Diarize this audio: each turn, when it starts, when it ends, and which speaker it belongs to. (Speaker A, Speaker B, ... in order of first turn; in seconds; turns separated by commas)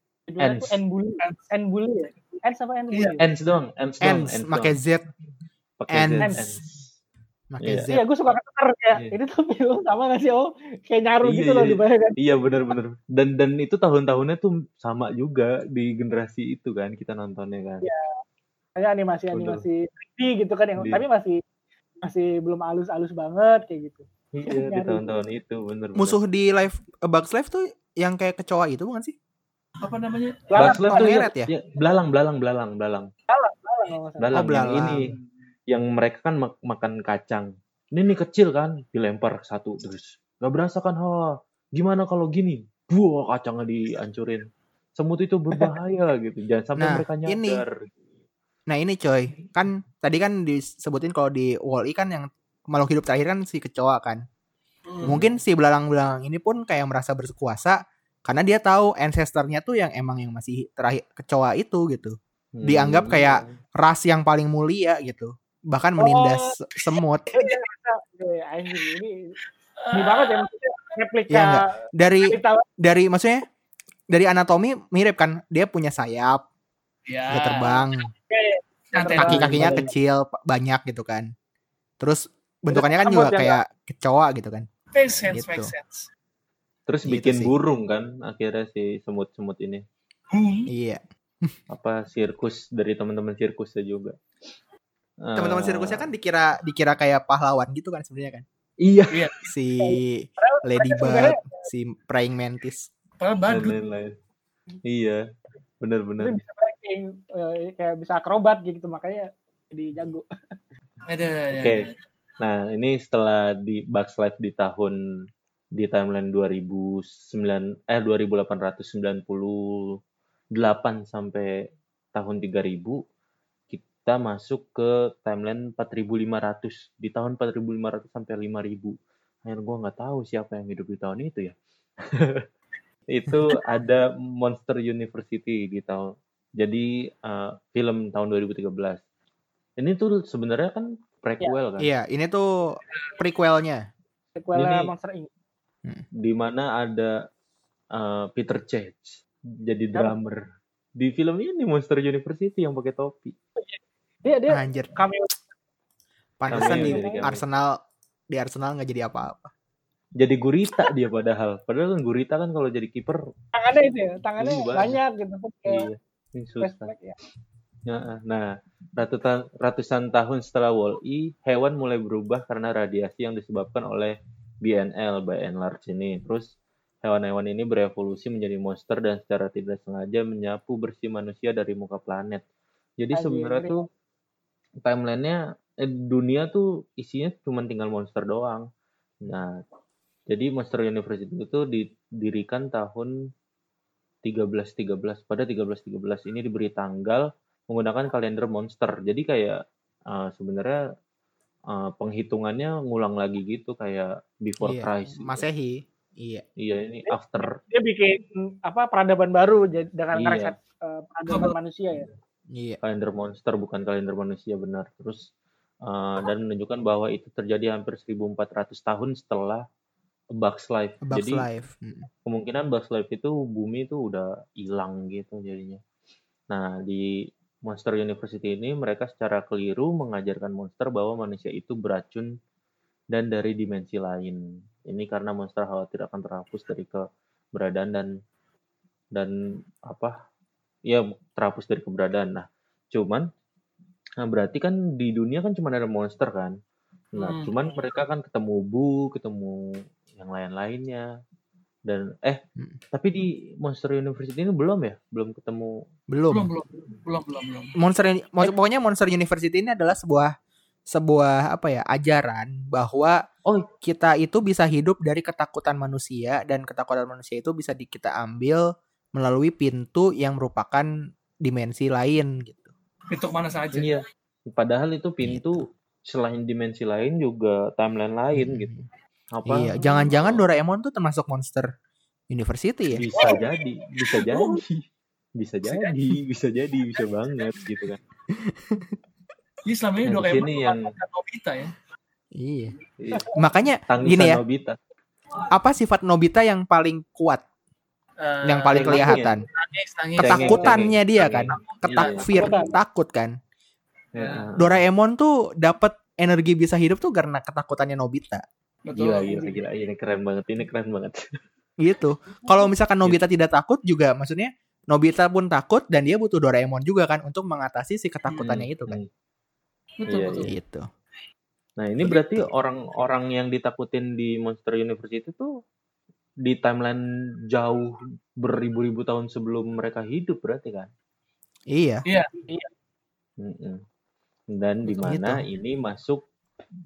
Speaker A: 0.3-3.2, Speaker B: 0.4-0.8, Speaker B: 3.2-4.8, Speaker C: 4.0-5.0, Speaker B: 5.8-6.9, Speaker C: 5.9-6.5, Speaker C: 7.5-8.1, Speaker B: 7.6-7.9, Speaker A: 7.9-12.2, Speaker B: 11.2-17.9, Speaker A: 18.8-21.4, Speaker B: 19.3-19.6, Speaker B: 20.8-21.0, Speaker A: 22.0-25.0, Speaker B: 24.3-26.2, Speaker C: 25.9-29.1, Speaker D: 29.8-30.8, Speaker A: 30.5-31.1, Speaker B: 30.5-33.1, Speaker C: 30.8-31.5, Speaker A: 33.3-34.6, Speaker B: 34.2-35.1, Speaker C: 34.3-35.1, Speaker B: 35.7-44.4, Speaker B: 45.0-47.9, Speaker C: 46.8-47.6, Speaker C: 48.7-54.2, Speaker D: 54.9-55.1, Speaker B: 55.0-55.4, Speaker C: 55.0-67.5, Speaker B: 62.5-63.5, Speaker A: 66.0-66.5, Speaker A: 67.3-69.1, Speaker D: 69.8-70.4, Speaker A: 69.9-72.6, Speaker C: 71.3-73.4, Speaker C: 74.1-76.4, Speaker D: 77.1-78.0, Speaker C: 77.3-78.1, Speaker A: 78.3-79.9, Speaker D: 78.9-79.9, Speaker C: 79.1-81.3, Speaker C: 82.0-84.7, Speaker A: 82.7-83.6, Speaker D: 84.9-86.1, Speaker C: 85.3-85.7, Speaker B: 86.9-89.8, Speaker C: 87.0-87.5, Speaker D: 90.3-90.7, Speaker C: 90.7-91.5, Speaker B: 91.7-94.2, Speaker B: 95.2-96.1, Speaker C: 95.3-98.4, Speaker B: 98.8-99.3, Speaker C: 99.5-102.9, Speaker A: 99.8-101.6, Speaker D: 103.2-103.8, Speaker B: 103.5-104.1, Speaker B: 104.8-105.2, Speaker B: 105.8-106.4, Speaker A: 106.2-110.2, Speaker D: 111.1-111.9, Speaker B: 111.5-111.8, Speaker B: 112.4-115.0, Speaker B: 115.8-120.0, Speaker B: 120.5-121.5, Speaker B: 122.1-123.0, Speaker B: 123.7-132.4, Speaker B: 133.1-136.1, Speaker B: 136.6-139.0, Speaker B: 139.8-141.9, Speaker C: 141.8-143.8, Speaker A: 144.4-145.3, Speaker B: 144.5-144.9, Speaker B: 146.2-147.2, Speaker B: 147.9-150.4, Speaker B: 151.0-153.3, Speaker A: 153.6-155.3, Speaker C: 154.5-154.9, Speaker C: 156.4-157.8, Speaker B: 156.5-157.4, Speaker A: 156.5-157.3, Speaker C: 158.3-159.5, Speaker B: 160.2-163.2, Speaker A: 163.5-165.9, Speaker B: 164.4-165.0, Speaker B: 165.6-166.9, Speaker A: 166.6-167.2, Speaker B: 167.9-176.5, Speaker B: 177.0-182.4, Speaker B: 183.0-183.8, Speaker A: 183.1-183.8, Speaker B: 184.8-188.7, Speaker B: 189.2-189.6, Speaker B: 190.3-193.1, Speaker B: 194.2-199.6, Speaker B: 200.1-200.8, Speaker B: 201.7-205.4, Speaker C: 204.6-206.4, Speaker B: 206.6-207.6, Speaker A: 207.7-212.1, Speaker B: 210.1-210.5, Speaker C: 212.5-212.8, Speaker B: 212.8-215.3, Speaker B: 215.8-219.6, Speaker B: 220.3-221.4, Speaker C: 221.1-222.1, Speaker B: 222.3-225.8, Speaker B: 226.5-227.1, Speaker B: 227.7-232.3, Speaker B: 233.1-237.0, Speaker B: 237.5-238.1, Speaker B: 239.9-240.1, Speaker B: 240.9-243.3, Speaker B: 244.2-246.5, Speaker B: 247.1-249.6, Speaker D: 247.2-247.5, Speaker B: 250.2-251.1, Speaker B: 251.9-252.4, Speaker B: 252.9-255.8, Speaker C: 256.1-256.5, Speaker D: 256.3-257.7, Speaker C: 257.8-260.3, Speaker C: 260.9-263.2, Speaker C: 263.8-268.6, Speaker C: 269.1-270.9, Speaker C: 271.4-272.7, Speaker D: 273.1-273.9, Speaker B: 273.7-278.7, Speaker C: 275.2-275.6, Speaker C: 278.3-278.9, Speaker B: 279.3-280.4, Speaker C: 279.4-281.7, Speaker C: 282.3-283.1, Speaker B: 282.9-284.8, Speaker D: 283.2-283.4, Speaker D: 284.2-284.6, Speaker B: 285.4-288.0, Speaker C: 288.3-288.9, Speaker D: 289.6-291.7, Speaker B: 290.0-290.9, Speaker C: 292.4-292.8, Speaker B: 293.0-293.4, Speaker C: 293.3-294.4, Speaker B: 293.9-294.8, Speaker C: 295.5-297.4, Speaker D: 298.2-302.4, Speaker C: 298.4-299.4, Speaker B: 298.7-299.4, Speaker C: 300.2-303.3, Speaker B: 300.2-302.5, Speaker A: 302.3-302.7, Speaker B: 304.1-304.8, Speaker D: 304.2-304.4, Speaker C: 304.6-308.4, Speaker D: 308.9-309.6, Speaker B: 308.9-311.4, Speaker C: 311.8-319.0, Speaker B: 318.4-319.1, Speaker D: 320.0-320.5, Speaker B: 320.1-320.5, Speaker C: 320.4-320.9, Speaker B: 321.8-325.5, Speaker C: 322.0-322.4, Speaker B: 326.4-330.9, Speaker C: 331.7-332.0, Speaker B: 333.4-333.8, Speaker B: 334.5-336.2, Speaker C: 334.9-335.4